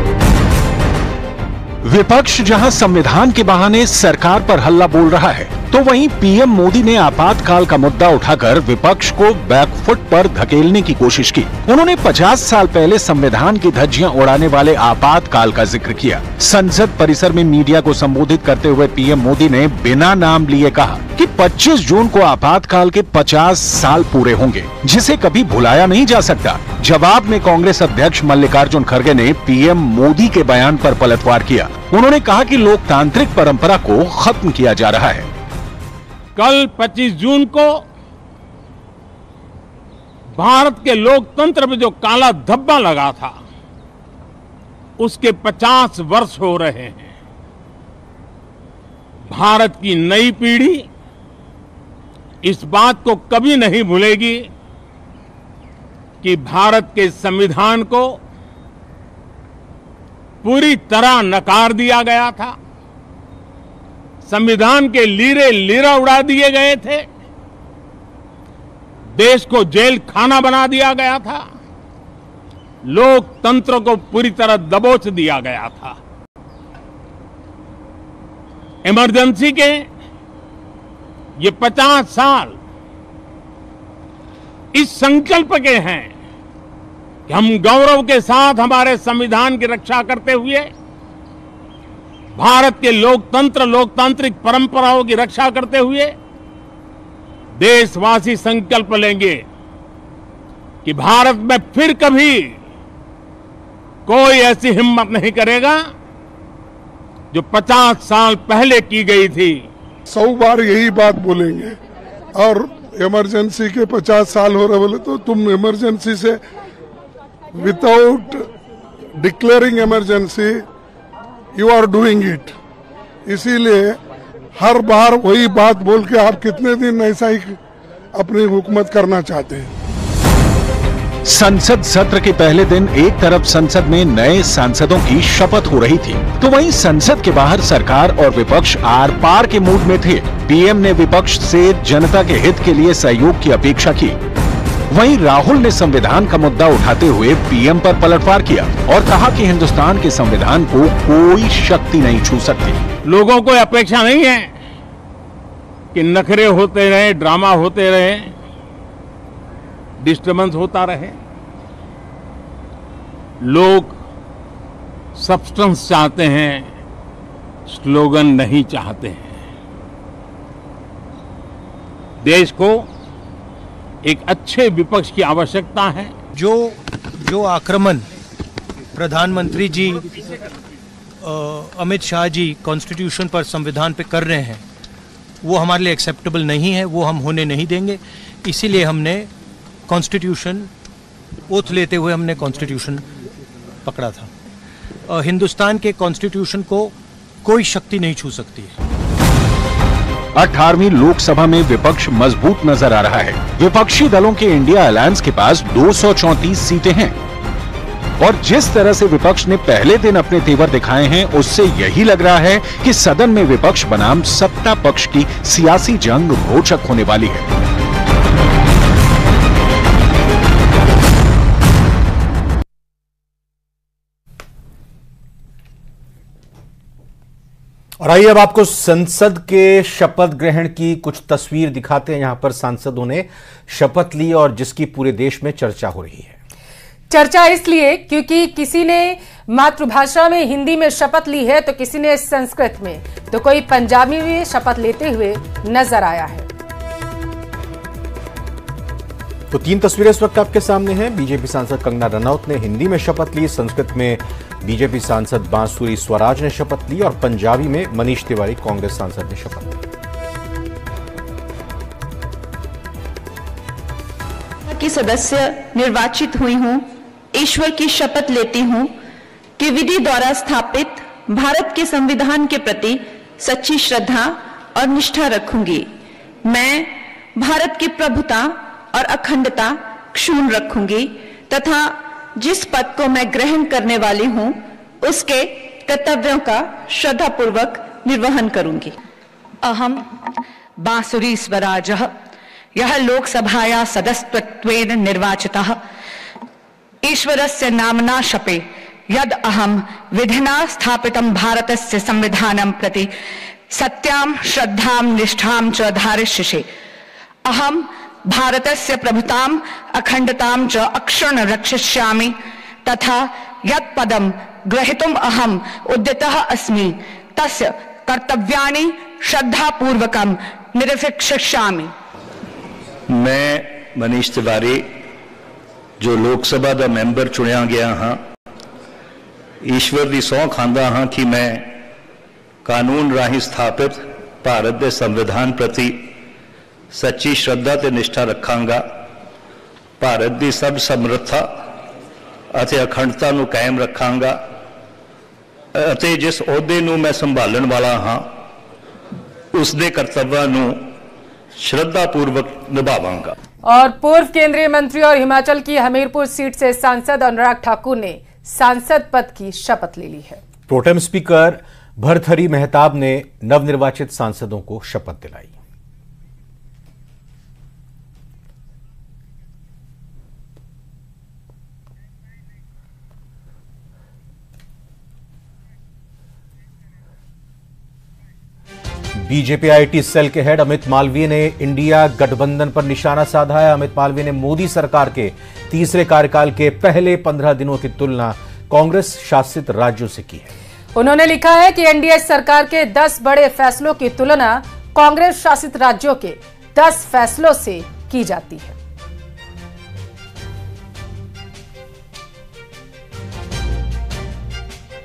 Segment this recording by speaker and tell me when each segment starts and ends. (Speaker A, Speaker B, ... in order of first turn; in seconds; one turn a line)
Speaker A: 1.8-35.3
Speaker B: 36.4-37.8
Speaker B: 40.4-43.4
Speaker B: 45.0-47.1
Speaker B: 49.3-50.9
Speaker B: 52.4-54.5
Speaker B: 56.2-58.2
Speaker B: 60.4-62.6
Speaker B: 64.3-67.1
Speaker B: 69.2-71.5
Speaker B: 72.8-76.0
Speaker B: 78.8-79.9
Speaker B: 81.4-82.6
Speaker B: 84.7-86.1
Speaker B: 87.3-90.7
Speaker B: 92.4-96.2
Speaker B: 97.6-99.5
Speaker B: 100.8-102.5
Speaker B: 104.1-105.8
Speaker B: 107.3-109.7
Speaker C: 110.1-111.8
Speaker C: 112.3-116.4
Speaker C: 117.5-118.5
Speaker C: 119.2-120.7
Speaker C: 121.5-122.5
Speaker C: 123.3-124.0
Speaker C: 124.5-127.6
Speaker C: 128.1-129.7
Speaker A: 131.2-144.2
Speaker A: 144.9-152.8
Speaker B: 153.1-154.5
Speaker B: 155.9-158.3
Speaker B: 160.0-161.2
Speaker B: 163.4-164.0
Speaker B: 165.2-166.7
Speaker B: 167.7-169.4
Speaker B: 172.2-172.9
Speaker B: 174.0-176.1
Speaker D: 176.3-178.1
Speaker D: 178.9-180.1
Speaker D: 181.2-184.6
Speaker D: 185.4-189.3
Speaker D: 189.9-190.7
Speaker D: 191.5-193.0
Speaker D: 193.8-194.3
Speaker D: 195.1-196.9
Speaker D: 197.4-198.7
Speaker A: 200.4-207.2
Speaker A: 208.2-217.5
Speaker E: 228.0-236.3
Speaker F: 237.1-246.5
Speaker E: 249.5-259.8
Speaker G: 264.7-268.9
Speaker G: 269.6-275.9
Speaker G: 276.4-289.0
Speaker H: 289.6-290.2
Speaker H: 290.8-292.1
Speaker H: 292.8-295.8
Speaker H: 297.0-303.1
Speaker H: 303.7-306.7
Speaker H: 307.4-321.9
Speaker I: 323.1-324.8
Speaker I: 326.0-328.2
Speaker I: 329.6-331.8
Speaker I: 332.6-336.1
Speaker I: 336.9-338.9
Speaker I: 340.0-341.5
Speaker I: 342.5-344.4
Speaker I: 345.8-348.4
Speaker I: 349.5-350.9
Speaker I: 351.6-353.4
Speaker F: 353.6-360.4
Speaker E: 360.7-365.5
Speaker E: 379.2-390.5
Speaker F: 390.9-398.8